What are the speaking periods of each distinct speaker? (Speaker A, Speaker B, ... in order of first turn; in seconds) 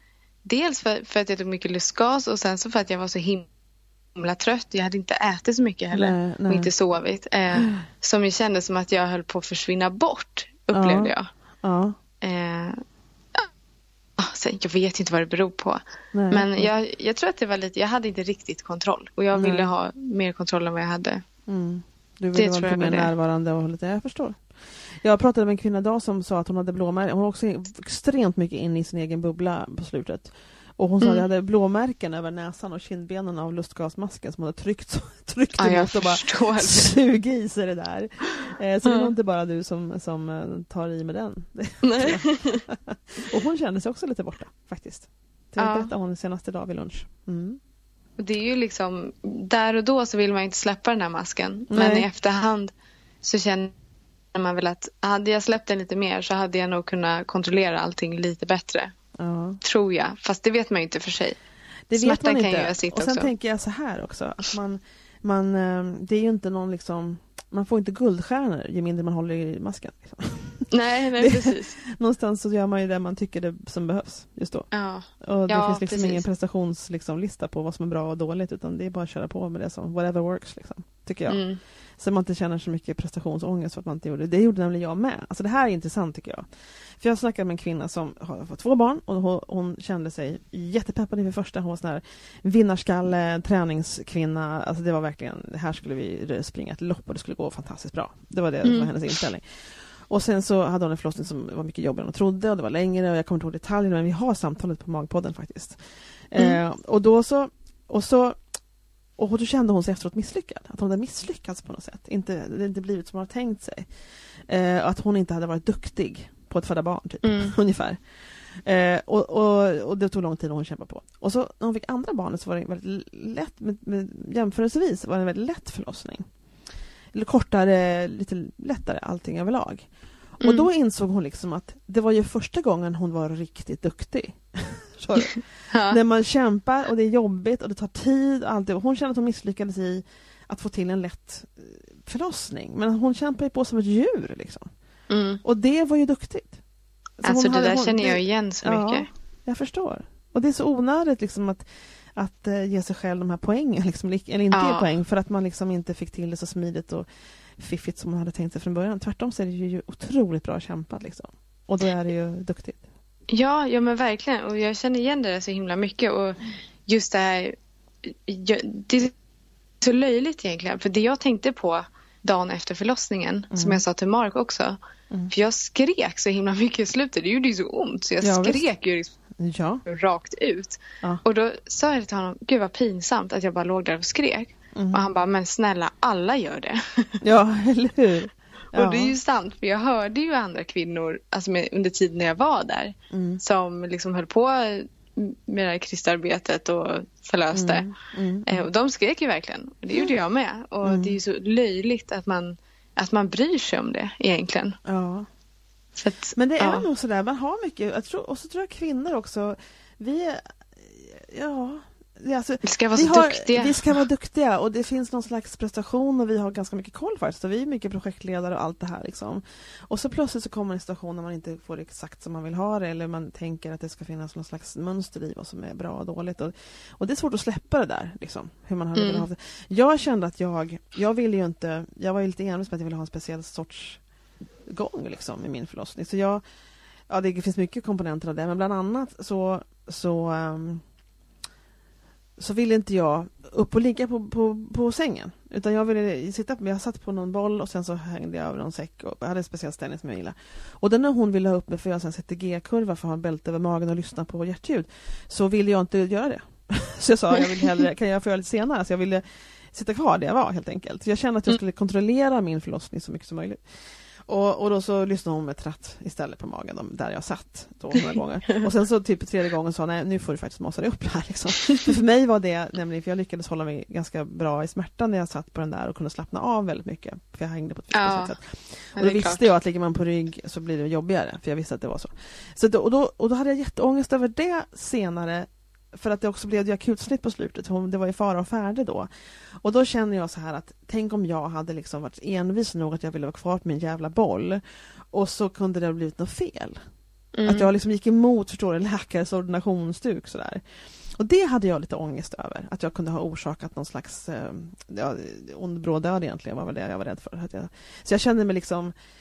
Speaker A: 0.5-3.5, 4.2-11.3, 12.2-12.8, 14.2-15.8, 16.3-21.2, 22.4-23.1, 31.0-31.2, 35.6-36.9, 38.9-39.1, 41.8-42.6, 45.6-45.9, 48.2-53.7, 54.3-58.9, 59.6-61.4, 61.9-63.3, 70.7-71.8, 74.7-76.2, 81.3-81.6, 98.6-98.9, 117.2-117.5, 130.4-130.7, 135.2-136.0, 145.1-145.4, 147.2-149.1, 154.5-154.9, 163.3-169.1, 169.8-174.8, 175.3-179.2, 179.9-187.2, 188.7-197.9, 198.5-204.8, 206.0-206.9, 212.6-214.0, 228.9-229.3, 277.9-278.3, 279.0-279.4, 297.4-297.7
Speaker B: 5.9-6.7, 10.7-12.0, 16.1-16.7, 19.3-19.7, 21.5-47.6, 51.7-52.1, 59.2-59.6, 61.9-74.7, 75.2-81.4, 82.0-86.5, 87.0-105.8, 106.3-108.4, 109.2-113.9, 114.5-126.2, 127.1-129.9, 130.4-144.7, 145.4-146.6, 147.2-151.7, 152.2-157.1, 157.6-162.8, 173.5-173.8, 178.2-178.7, 179.4-179.8, 184.8-185.0, 187.2-189.2, 193.1-193.4, 197.5-198.7, 200.8-201.2, 204.8-205.3, 206.4-234.0, 234.7-236.4, 237.1-240.8, 242.4-263.7, 264.3-289.1, 289.6-296.8, 297.5-308.9